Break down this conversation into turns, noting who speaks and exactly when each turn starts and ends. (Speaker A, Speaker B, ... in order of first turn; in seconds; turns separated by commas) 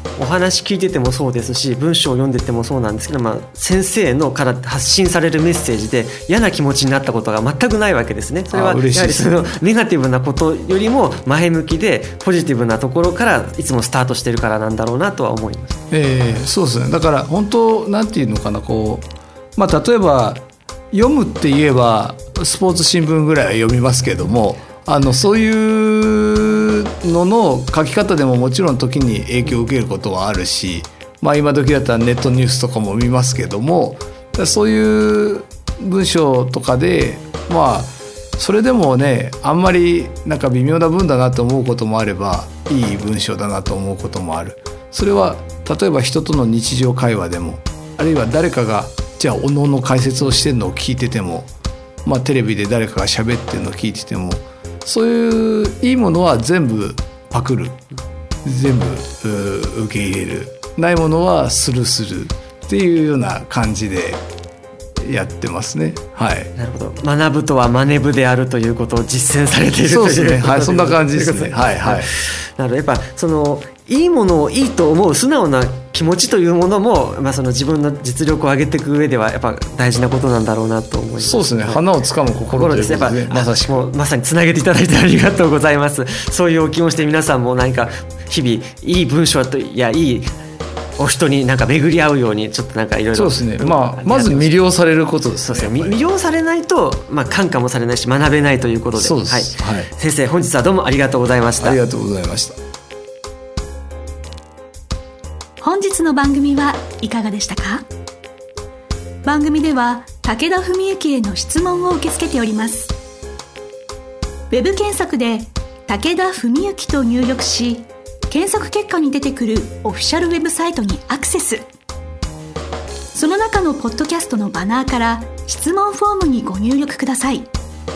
Speaker A: 0.2-15.8, Speaker B: 8.5-9.5, Speaker B: 15.9-51.5, Speaker B: 52.0-57.8, Speaker B: 58.5-64.2, Speaker B: 65.0-66.5, Speaker A: 66.6-81.8, Speaker B: 69.8-72.1, Speaker B: 81.2-83.8, Speaker A: 82.5-90.3, Speaker A: 91.0-94.5, Speaker B: 93.1-96.0, Speaker A: 95.4-101.8, Speaker B: 99.0-99.9, Speaker B: 101.6-102.6, Speaker C: 105.6-107.8, Speaker C: 109.2-113.0, Speaker C: 114.5-121.7, Speaker C: 123.1-127.5